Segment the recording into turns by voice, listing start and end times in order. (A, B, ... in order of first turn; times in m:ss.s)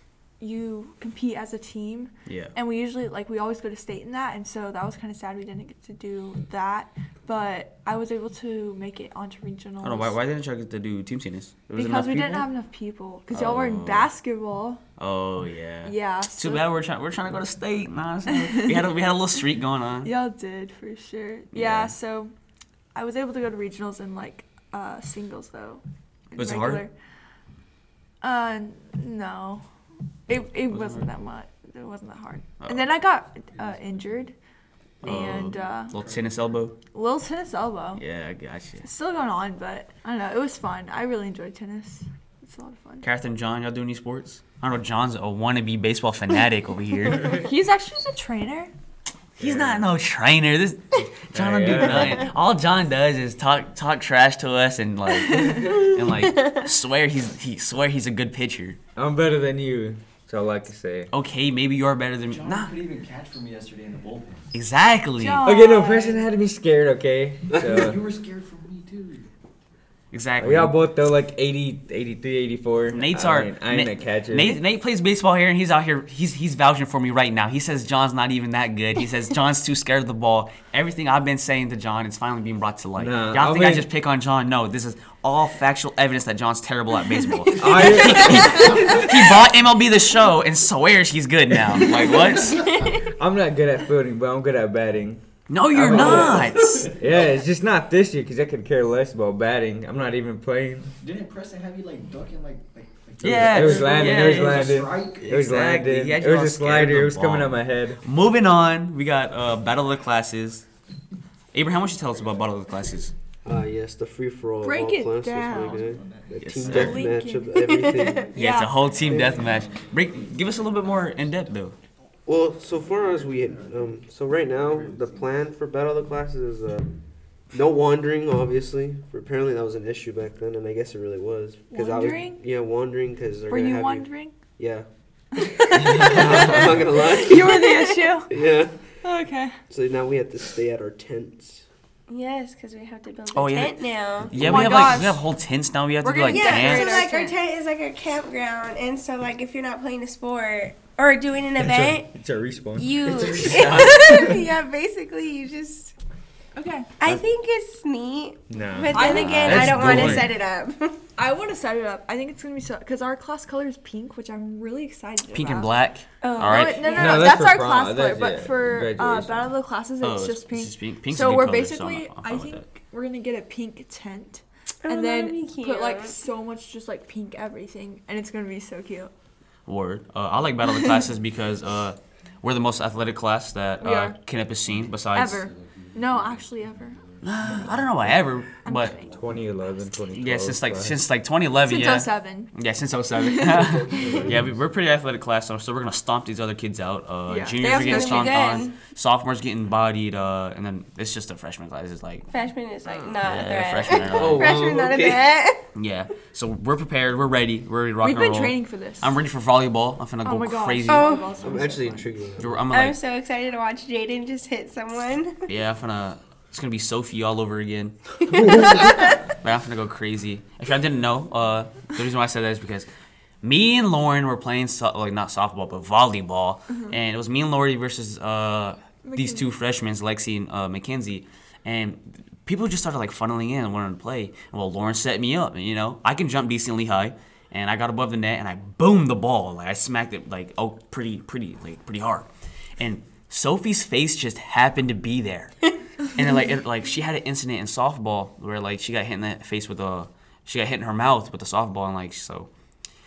0:00.4-0:10.2 A
0:02.2-0:02.5 B
0:09.8-0:12.5 B
0:11.7-0:14.8 A
0:13.3-0:14.1 B
0:15.0-0:20.1 B
0:15.8-0:16.6 A
0:18.3-0:18.9 A
0:20.0-0:22.3 A
0:21.5-0:21.9 B
0:22.9-0:26.9 A
0:26.3-0:26.8 B
0:28.2-0:29.6 A
0:30.3-0:34.3 A
0:30.7-0:31.0 B
0:32.6-0:32.9 B
0:35.0-0:35.9 A
0:35.0-0:36.8 B
0:36.9-0:38.0 A
0:38.0-0:38.9 B
0:38.8-0:43.0 A
0:43.0-0:47.4 B
0:47.2-0:48.7 A
0:49.4-0:49.9 C
0:49.4-0:58.8 B
0:51.3-0:52.3 C
0:59.0-1:01.1 C
1:01.1-1:02.7 B
1:02.3-1:04.5 D
1:04.5-1:05.5 B
1:05.2-1:06.2 A
1:05.4-1:08.0 C
1:07.6-1:09.3 D
1:10.1-1:10.8 B
1:10.4-1:14.6 C
1:12.9-1:32.7 B
1:23.0-1:23.9 C
1:27.5-1:29.1 C
1:32.6-1:33.0 E
1:33.0-1:40.9 C
1:35.5-1:36.9 B
1:35.8-1:37.0 D
1:41.0-1:45.4 D
1:43.2-1:48.0 C
1:43.2-1:50.6 B
1:51.5-1:53.1 B
1:53.4-1:58.4 F
1:54.6-1:55.9 A
1:55.5-1:56.9 D
1:56.4-1:57.2 B
1:56.7-1:58.7 A
1:57.5-1:58.3 E
1:58.3-2:01.8 B
1:58.8-2:01.4 D
1:59.1-1:59.4 F
2:02.2-2:06.9 F
2:02.9-2:03.9 D
2:04.6-2:05.2 D
2:07.5-2:14.9 F
2:11.7-2:12.4 A
2:13.5-2:14.4 A
2:15.3-2:18.3 A
2:15.4-2:18.8 F
2:16.1-2:16.7 B
2:17.6-2:18.1 E
2:19.0-2:19.6 A
2:19.7-2:21.6 F
2:22.1-2:24.4 E
2:23.3-2:27.0 B
2:24.3-2:25.2 A
2:26.0-2:27.3 A
2:26.3-2:32.1 E
2:31.6-2:34.4 C
2:32.7-2:35.9 E
2:36.6-2:36.9 A
2:37.0-2:41.0 E
2:38.5-2:40.3 C
2:38.9-2:39.6 A
2:39.2-2:40.3 B
2:41.2-2:45.7 A
2:45.3-2:47.1 B
2:46.2-2:47.3 E
2:46.3-2:59.1 A
2:46.9-2:49.5 C
2:50.0-2:52.6 B
2:54.8-2:56.2 E
2:59.6-3:05.5 B
3:03.8-3:04.2 A
3:05.1-3:07.0 A
3:05.2-3:06.4 D
3:07.0-3:07.7 D
3:07.2-3:08.9 B
3:08.6-3:09.2 A
3:09.0-3:11.0 C
3:09.1-3:09.4 D
3:10.1-3:22.3 B
3:11.6-3:12.5 A
3:13.1-3:14.0 A
3:13.4-3:14.3 F
3:17.3-3:18.5 A
3:17.6-3:18.8 E
3:22.3-3:25.6 E
3:23.2-3:24.6 B
3:23.9-3:25.4 F
3:25.7-3:31.1 B
3:28.0-3:29.2 A
3:30.2-3:32.1 A
3:30.8-3:31.4 E
3:31.4-3:32.6 F
3:32.4-3:33.0 B
3:32.7-3:35.5 E
3:35.5-3:42.9 B
3:38.3-3:39.2 E
3:43.4-4:12.5 B
3:49.0-3:49.5 A